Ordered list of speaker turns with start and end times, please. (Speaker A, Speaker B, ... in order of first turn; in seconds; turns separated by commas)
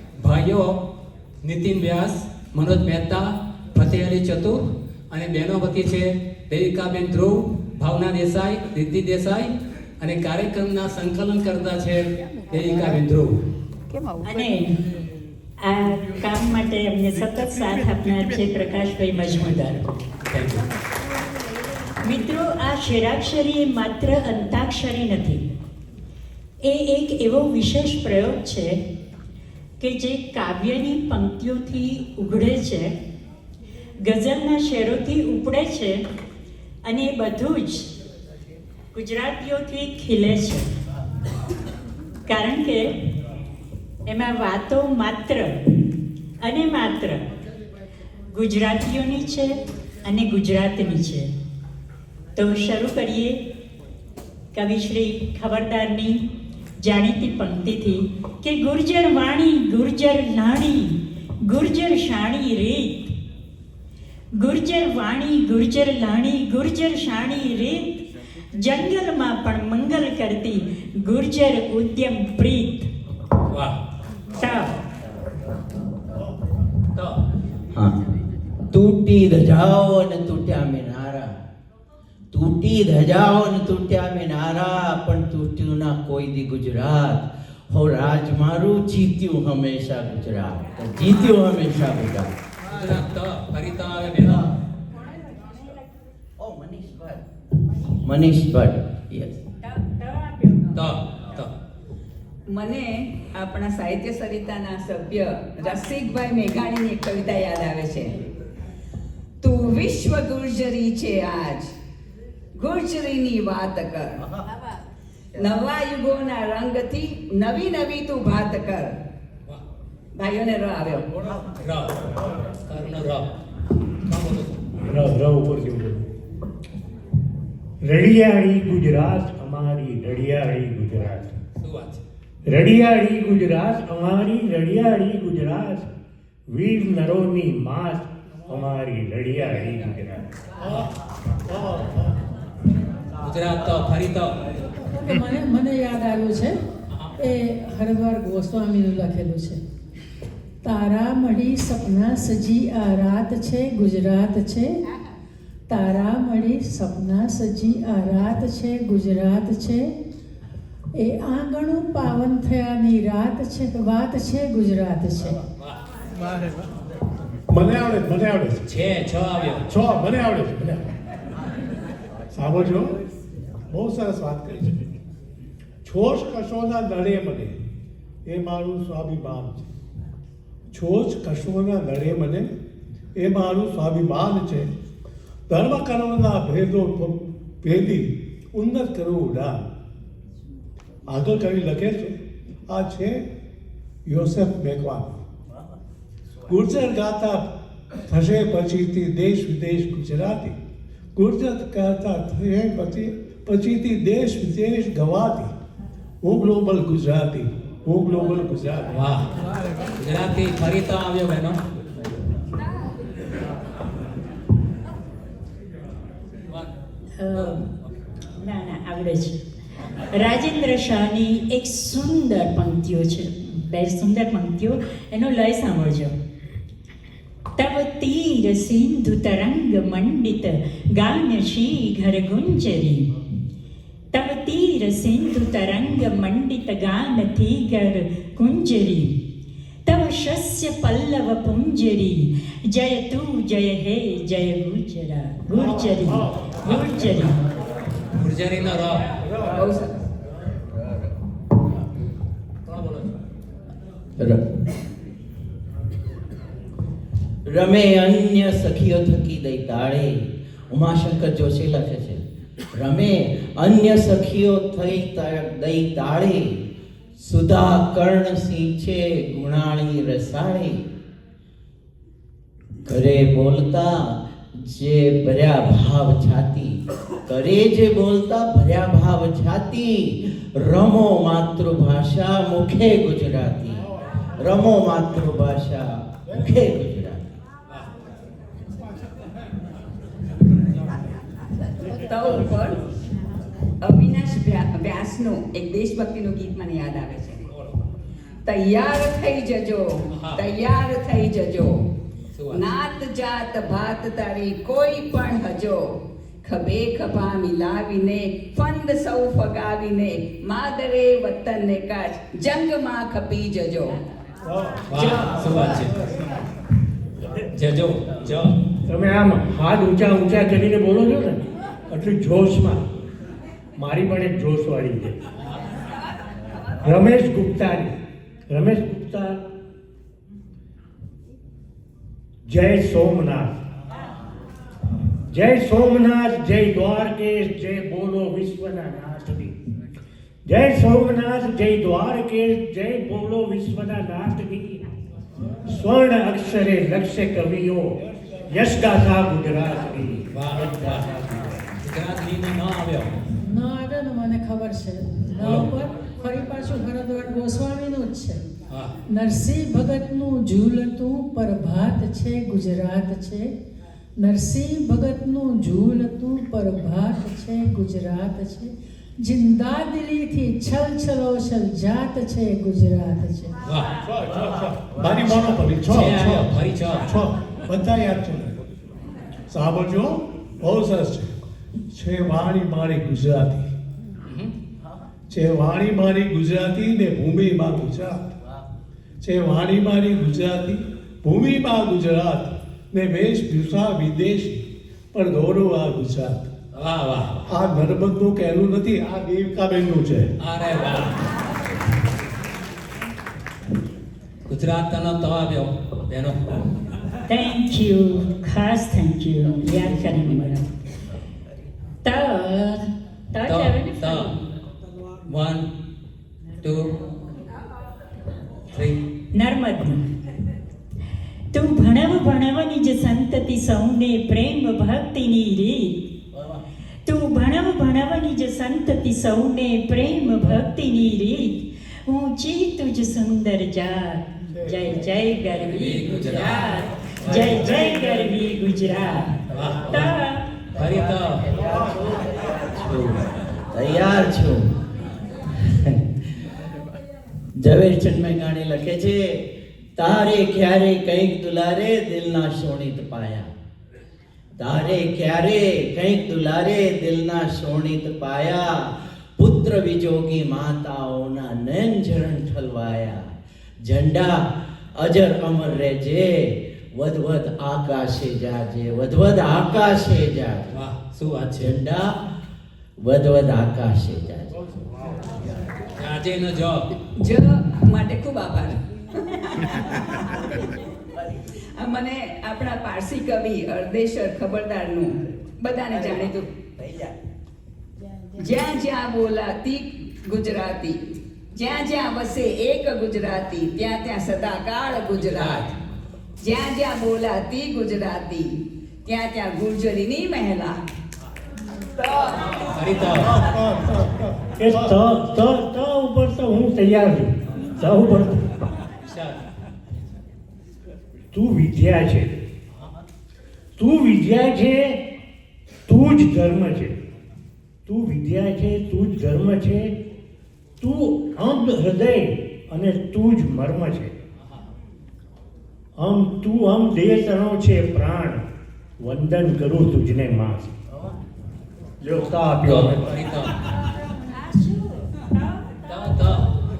Speaker A: 0.2-0.8, Speaker A: 1.4-13.4, Speaker B: 14.2-14.8, Speaker B: 15.6-19.9, Speaker A: 20.3-20.7, Speaker B: 22.0-25.4, Speaker B: 26.6-28.8, Speaker B: 29.8-32.9, Speaker B: 34.0-36.0, Speaker B: 36.8-37.9, Speaker B: 38.9-40.7, Speaker B: 42.2-43.0, Speaker B: 44.1-45.6, Speaker B: 46.4-47.3, Speaker B: 48.3-51.3, Speaker B: 52.4-53.4, Speaker B: 54.5-56.2, Speaker B: 56.8-63.1, Speaker B: 64.4-67.9, Speaker B: 68.5-72.9, Speaker A: 73.5-73.8, Speaker B: 74.4-74.8, Speaker A: 77.0-77.2, Speaker C: 78.7-81.3, Speaker C: 82.3-92.3, Speaker A: 92.7-94.4, Speaker C: 94.2-94.5, Speaker C: 96.4-97.2, Speaker C: 97.9-99.4, Speaker B: 99.6-100.8, Speaker A: 100.7-101.5, Speaker D: 102.5-108.3, Speaker D: 109.4-111.7, Speaker D: 112.5-114.3, Speaker D: 115.3-118.9, Speaker D: 120.2-121.1, Speaker A: 121.6-122.0, Speaker A: 122.7-123.3, Speaker A: 124.0-124.6, Speaker E: 124.8-126.1, Speaker E: 127.8-131.4, Speaker A: 131.6-132.0, Speaker E: 132.4-135.9, Speaker E: 136.5-140.3, Speaker F: 138.3-138.6, Speaker F: 140.6-140.9, Speaker A: 140.7-140.9, Speaker F: 141.4-142.2, Speaker A: 143.2-144.4, Speaker G: 144.9-146.6, Speaker A: 146.9-147.2, Speaker G: 147.2-149.6, Speaker G: 150.6-154.8, Speaker G: 155.7-159.9, Speaker G: 160.9-165.4, Speaker F: 167.5-168.6, Speaker A: 168.7-169.7, Speaker F: 169.7-170.8, Speaker F: 172.3-173.0, Speaker F: 173.7-174.8, Speaker F: 175.8-177.6, Speaker F: 178.2-179.7, Speaker F: 180.7-182.5, Speaker F: 183.2-184.7, Speaker F: 185.5-189.7, Speaker F: 191.1-192.2, Speaker F: 192.7-193.2, Speaker F: 194.1-195.2, Speaker F: 196.5-197.5, Speaker F: 198.1-200.6, Speaker F: 201.2-205.5, Speaker F: 206.2-209.0, Speaker A: 208.9-209.3, Speaker A: 210.0-211.6, Speaker B: 217.2-217.7, Speaker A: 217.3-217.9, Speaker B: 218.4-219.4, Speaker B: 220.1-226.1, Speaker B: 227.6-233.1, Speaker B: 234.1-239.2, Speaker B: 239.9-247.4, Speaker F: 245.5-246.5, Speaker A: 248.1-249.2, Speaker F: 249.2-249.6, Speaker D: 249.6-250.0, Speaker A: 252.7-253.1, Speaker C: 254.2-254.4, Speaker C: 257.5-262.2, Speaker C: 262.7-266.6, Speaker C: 267.2-270.9, Speaker C: 272.9-287.3, Speaker D: 291.9-292.8, Speaker D: 293.8-297.4, Speaker D: 298.4-301.9, Speaker A: 300.1-300.4, Speaker A: 302.3-302.6, Speaker D: 302.5-314.0, Speaker F: 314.5-314.9, Speaker A: 314.9-316.1, Speaker D: 314.9-315.8, Speaker A: 317.5-318.6, Speaker E: 318.9-322.9, Speaker E: 323.8-325.2, Speaker E: 326.8-329.4, Speaker E: 332.4-333.6, Speaker E: 335.3-339.6, Speaker E: 340.4-344.8, Speaker E: 345.6-351.6, Speaker A: 350.3-351.1, Speaker A: 351.8-353.2, Speaker G: 353.4-358.4, Speaker A: 355.3-355.8, Speaker G: 359.1-363.5, Speaker G: 364.2-373.6, Speaker A: 373.7-374.0, Speaker F: 374.1-378.6, Speaker C: 374.5-375.2, Speaker A: 375.8-377.1, Speaker F: 379.5-381.3, Speaker F: 381.9-383.7, Speaker A: 384.3-384.5, Speaker F: 385.3-388.4, Speaker F: 389.2-396.5, Speaker A: 396.7-397.5, Speaker F: 397.5-400.3, Speaker A: 400.4-401.3, Speaker A: 404.5-406.5, Speaker B: 407.3-410.7, Speaker B: 412.0-414.5, Speaker A: 413.5-414.3, Speaker A: 415.3-415.7, Speaker A: 416.6-416.9, Speaker A: 418.7-419.0, Speaker B: 419.3-420.0, Speaker B: 421.5-426.0, Speaker C: 426.3-426.6, Speaker B: 427.1-440.5, Speaker F: 434.5-434.9, Speaker A: 435.7-437.8, Speaker A: 439.5-440.2, Speaker A: 440.7-441.5, Speaker C: 441.5-444.8, Speaker C: 445.6-446.0, Speaker C: 447.6-453.5, Speaker C: 454.6-463.3, Speaker C: 463.8-464.4, Speaker C: 464.9-470.8, Speaker A: 470.7-471.8, Speaker C: 471.6-472.2, Speaker C: 473.0-474.6, Speaker A: 476.0-476.9, Speaker D: 477.2-480.7, Speaker D: 481.4-486.5, Speaker C: 485.9-487.1, Speaker D: 488.4-495.8, Speaker A: 495.2-495.8, Speaker D: 496.4-500.8, Speaker D: 502.0-502.6, Speaker A: 502.4-503.4, Speaker F: 503.1-505.0, Speaker E: 504.6-508.5, Speaker A: 509.0-509.4, Speaker E: 511.3-512.4, Speaker E: 513.8-515.0, Speaker E: 515.9-517.0, Speaker E: 517.9-520.0, Speaker E: 520.8-524.1, Speaker E: 526.0-528.4, Speaker E: 529.0-530.7, Speaker E: 532.0-533.2, Speaker A: 532.6-533.6, Speaker A: 535.9-536.6